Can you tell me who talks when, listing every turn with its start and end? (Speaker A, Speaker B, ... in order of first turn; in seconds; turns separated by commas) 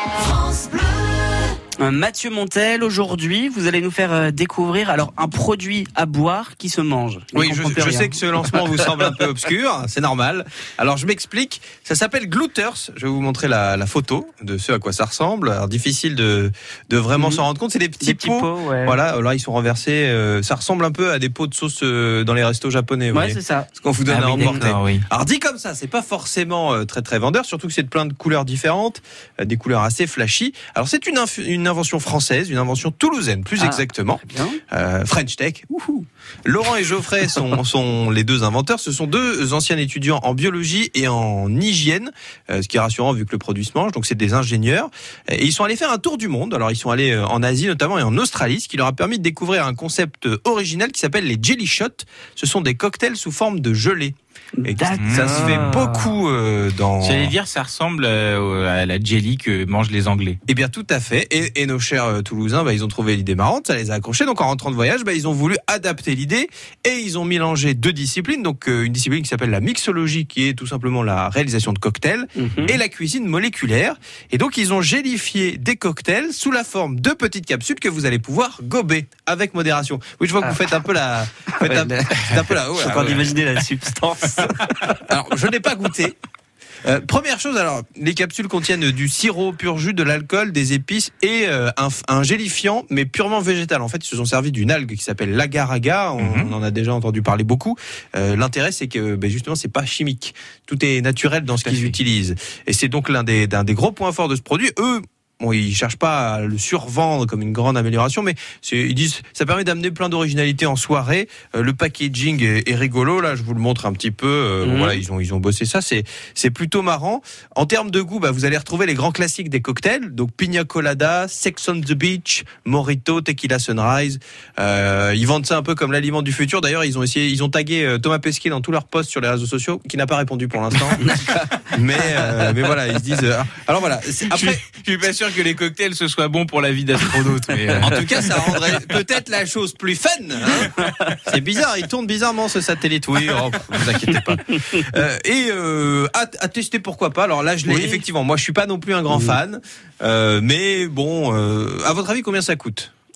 Speaker A: 0.2-8.9, Speaker B: 7.3-57.3, Speaker A: 17.2-17.4, Speaker A: 18.0-19.0, Speaker A: 23.1-24.7, Speaker C: 24.4-25.0, Speaker A: 33.6-34.6, Speaker A: 54.6-56.1, Speaker C: 55.0-55.8, Speaker C: 57.0-60.4, Speaker B: 60.5-83.3, Speaker A: 72.3-72.8, Speaker A: 81.6-84.6, Speaker B: 85.1-86.2, Speaker B: 86.8-131.1, Speaker C: 96.2-96.5, Speaker C: 101.6-102.0, Speaker A: 114.6-115.0, Speaker A: 131.0-131.4, Speaker B: 131.7-134.6, Speaker C: 134.3-138.8, Speaker B: 137.8-140.7, Speaker B: 141.2-152.9, Speaker A: 147.6-148.0, Speaker A: 149.1-149.4